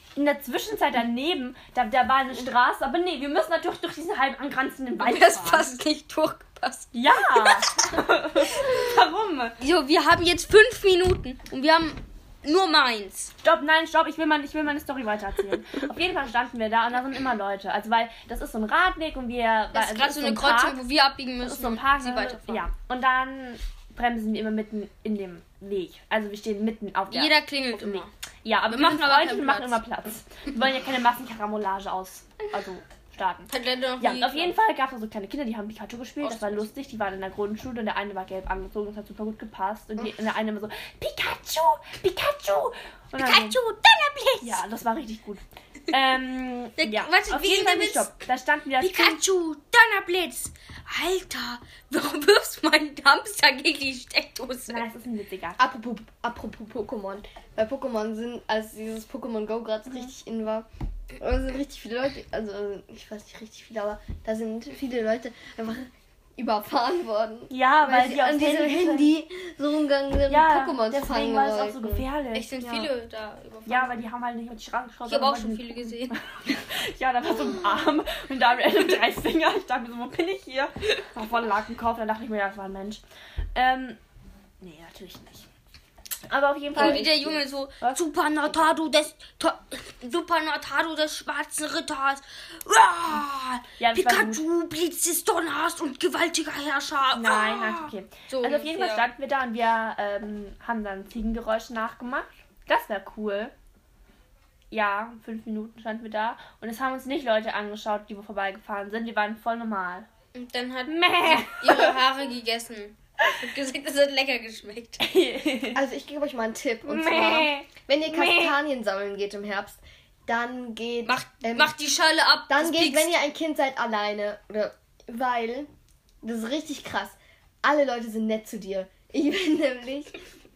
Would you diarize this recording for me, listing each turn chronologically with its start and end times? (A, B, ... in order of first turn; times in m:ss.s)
0:00.2-0:05.8 A
0:05.0-0:07.6 B
0:06.9-0:09.6 A
0:09.6-0:13.3 B
0:13.4-0:20.8 A
0:19.7-0:22.7 B
0:21.4-0:43.6 A
0:27.1-0:28.1 B
0:28.7-0:29.8 B
0:33.5-0:34.6 B
0:36.2-0:36.7 B
0:43.2-0:44.6 B
0:44.4-0:49.2 A
0:46.8-0:48.1 B
0:48.8-0:54.9 B
0:54.7-0:55.6 A
0:55.6-1:00.7 C
1:01.2-1:12.1 C
1:07.5-1:09.2 A
1:10.3-1:12.9 A
1:12.3-1:14.0 B
1:13.7-1:23.0 A
1:15.1-1:16.2 B
1:23.5-1:24.0 A
1:24.6-1:25.4 A
1:26.3-1:28.0 A
1:26.7-1:39.1 B
1:33.8-1:34.4 A
1:37.1-1:43.5 A
1:44.7-1:50.1 A
1:50.3-1:55.2 B
1:50.9-1:52.0 A
1:55.0-1:55.8 A
1:55.7-2:01.7 C
1:56.8-1:58.6 A
2:01.0-2:03.2 B
2:02.5-2:05.7 C
2:06.2-2:10.2 C